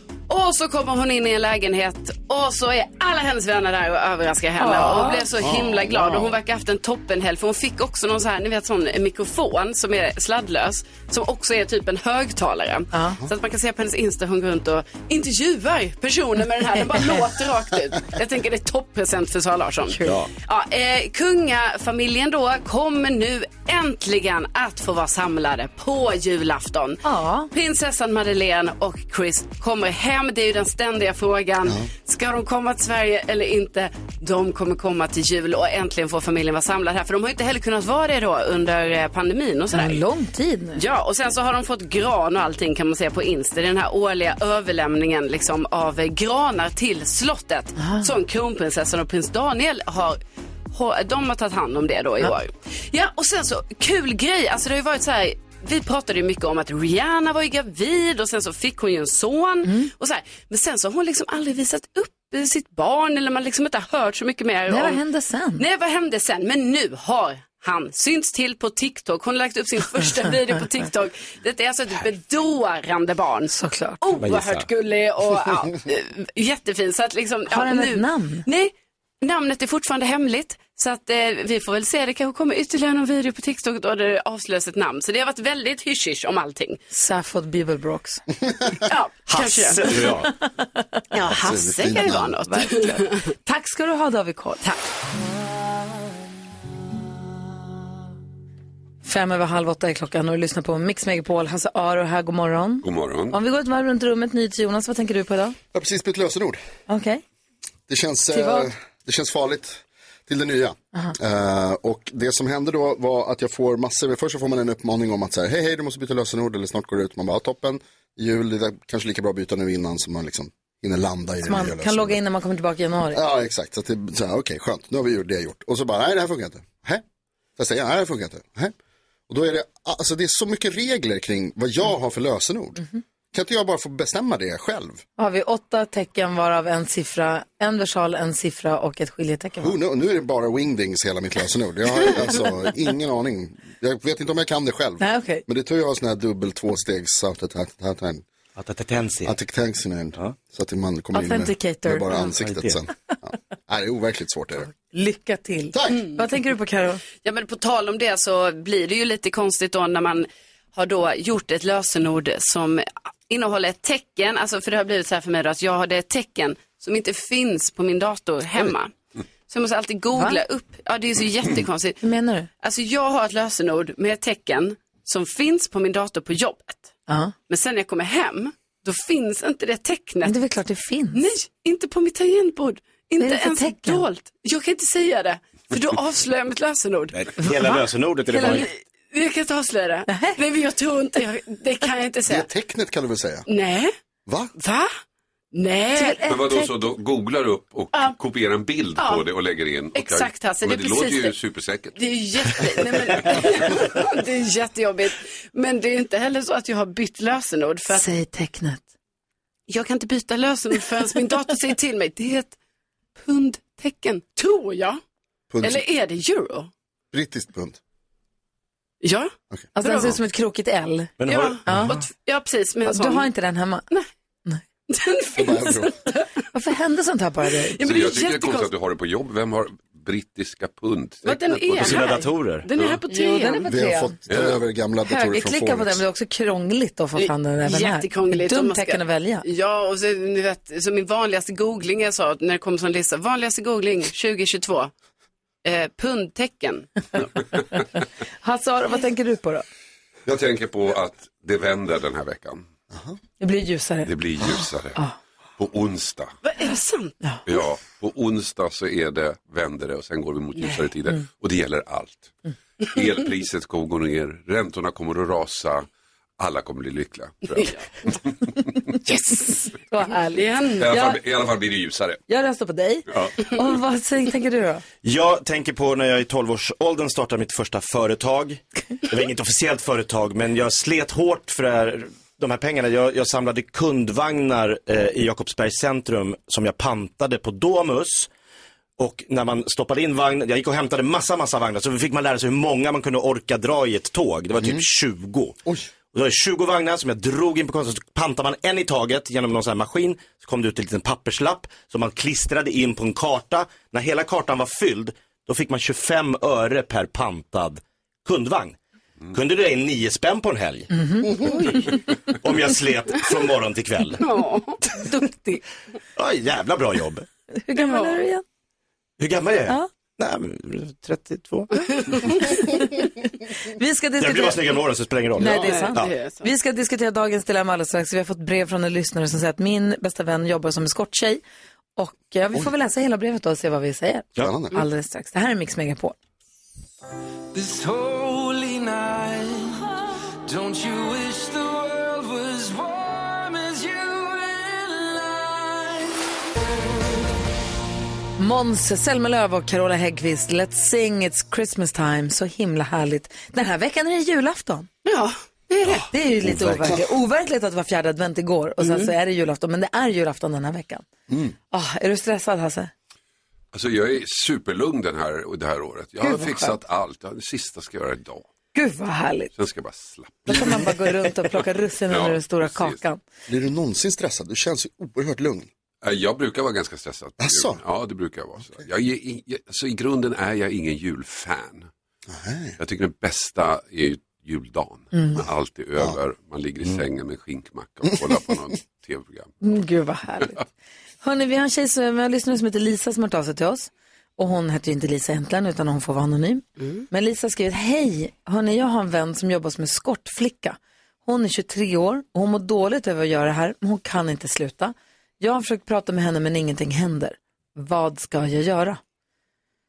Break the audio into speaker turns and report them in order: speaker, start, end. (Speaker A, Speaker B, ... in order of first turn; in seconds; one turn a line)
Speaker A: 0.3-40.0
Speaker B: 4.6-5.3
Speaker C: 5.4-6.1
Speaker B: 12.9-13.2
Speaker D: 20.0-20.3
Speaker B: 27.0-27.5
Speaker B: 39.7-40.8
Speaker A: 40.8-50.2
Speaker B: 47.8-48.1
Speaker A: 50.7-65.0
Speaker B: 59.6-59.9
Speaker B: 64.7-65.6
Speaker A: 65.6-86.8
Speaker B: 73.5-74.0
Speaker D: 74.2-74.7
Speaker B: 77.5-78.4
Speaker B: 86.9-88.2
Speaker A: 88.9-90.1
Speaker D: 89.3-90.3
Speaker A: 91.1-93.3
Speaker C: 91.3-92.3
Speaker B: 93.5-94.7
Speaker B: 99.0-105.6
Speaker E: 102.8-103.4
Speaker C: 105.7-106.6
Speaker B: 106.9-107.2
Speaker C: 107.9-122.2
Speaker B: 108.3-108.7
Speaker B: 121.4-123.2
Speaker C: 123.1-127.0
Speaker C: 127.6-128.7
Speaker C: 129.3-132.8
Speaker C: 133.3-135.0
Speaker B: 135.2-139.8
Speaker C: 139.6-148.2
Speaker B: 145.0-145.4
Speaker D: 148.6-149.3
Speaker C: 149.2-154.7
Speaker B: 151.1-152.1
Speaker D: 152.3-152.8
Speaker B: 154.8-157.0
Speaker C: 155.7-156.0
Speaker A: 155.9-156.2
Speaker A: 157.2-168.9
Speaker A: 169.5-172.0
Speaker B: 170.1-170.4
Speaker B: 172.0-172.5
Speaker A: 172.6-176.9
Speaker B: 177.1-177.3
Speaker A: 177.5-180.3
Speaker B: 180.2-181.3
Speaker A: 181.1-187.2
Speaker B: 183.2-184.0
Speaker D: 187.1-188.7
Speaker B: 187.4-188.7
Speaker A: 188.4-192.5
Speaker B: 190.1-190.3
Speaker C: 192.3-193.5
Speaker A: 193.5-193.9
Speaker A: 194.6-194.9
Speaker A: 195.5-196.2
Speaker B: 196.0-196.7
Speaker E: 196.3-202.0
Speaker A: 199.0-199.3
Speaker A: 199.9-201.4
Speaker A: 201.9-208.1
Speaker B: 207.9-208.8
Speaker A: 209.7-212.6
Speaker A: 213.2-215.0
Speaker C: 215.5-215.8
Speaker A: 215.6-216.7
Speaker C: 217.1-217.8
Speaker A: 219.0-220.2
Speaker B: 219.8-221.1
Speaker D: 221.2-221.8
Speaker A: 221.3-223.3
Speaker B: 221.7-222.0
Speaker B: 222.9-223.8
Speaker A: 224.9-226.2
Speaker C: 225.4-225.9
Speaker B: 226.5-227.8
Speaker A: 227.8-228.7
Speaker E: 227.8-232.1
Speaker A: 231.2-233.7
Speaker D: 231.8-232.7
Speaker B: 233.1-234.2
Speaker C: 233.7-236.0
Speaker E: 234.3-234.6
Speaker B: 235.1-239.4
Speaker A: 237.2-244.9
Speaker A: 245.7-247.1
Speaker B: 248.4-249.7
Speaker E: 250.3-252.7
Speaker B: 253.4-255.1
Speaker E: 254.1-255.0
Speaker E: 255.6-256.3
Speaker A: 256.4-257.1
Speaker E: 257.5-262.4
Speaker A: 260.6-260.9
Speaker E: 262.9-265.9
Speaker E: 266.4-268.7
Speaker A: 269.1-269.6
Speaker B: 269.3-271.2
Speaker A: 270.4-270.9
Speaker E: 270.8-272.2
Speaker B: 272.3-274.8
Speaker E: 273.1-273.4
Speaker D: 275.0-288.3
Speaker D: 289.0-295.6
Speaker D: 296.1-308.8
Speaker D: 309.3-314.2
Speaker B: 310.9-311.8
Speaker A: 314.2-314.8
Speaker B: 315.0-315.6
Speaker D: 316.2-317.3
Speaker B: 317.6-318.4
Speaker A: 317.8-318.2
Speaker D: 319.2-322.5
Speaker B: 323.8-324.8
Speaker D: 324.2-326.1
Speaker B: 325.4-331.4
Speaker A: 325.7-326.5
Speaker B: 332.0-336.2
Speaker C: 334.4-334.7
Speaker F: 337.5-339.9
Speaker F: 340.4-346.3
Speaker B: 348.4-354.9
Speaker A: 355.1-356.1
Speaker B: 356.1-361.1
Speaker D: 356.4-357.0
Speaker A: 358.8-359.1
Speaker B: 361.7-362.9
Speaker E: 363.7-368.5
Speaker B: 366.2-366.8
Speaker B: 368.7-369.5
Speaker E: 369.5-371.0
Speaker B: 370.5-373.2
Speaker E: 372.1-373.0
Speaker C: 373.5-375.7
Speaker E: 376.0-381.9
Speaker C: 377.4-377.8
Speaker C: 382.3-382.8
Speaker E: 382.8-389.8
Speaker B: 385.1-385.4
Speaker B: 389.6-390.6
Speaker B: 391.2-409.0
Speaker A: 396.8-397.1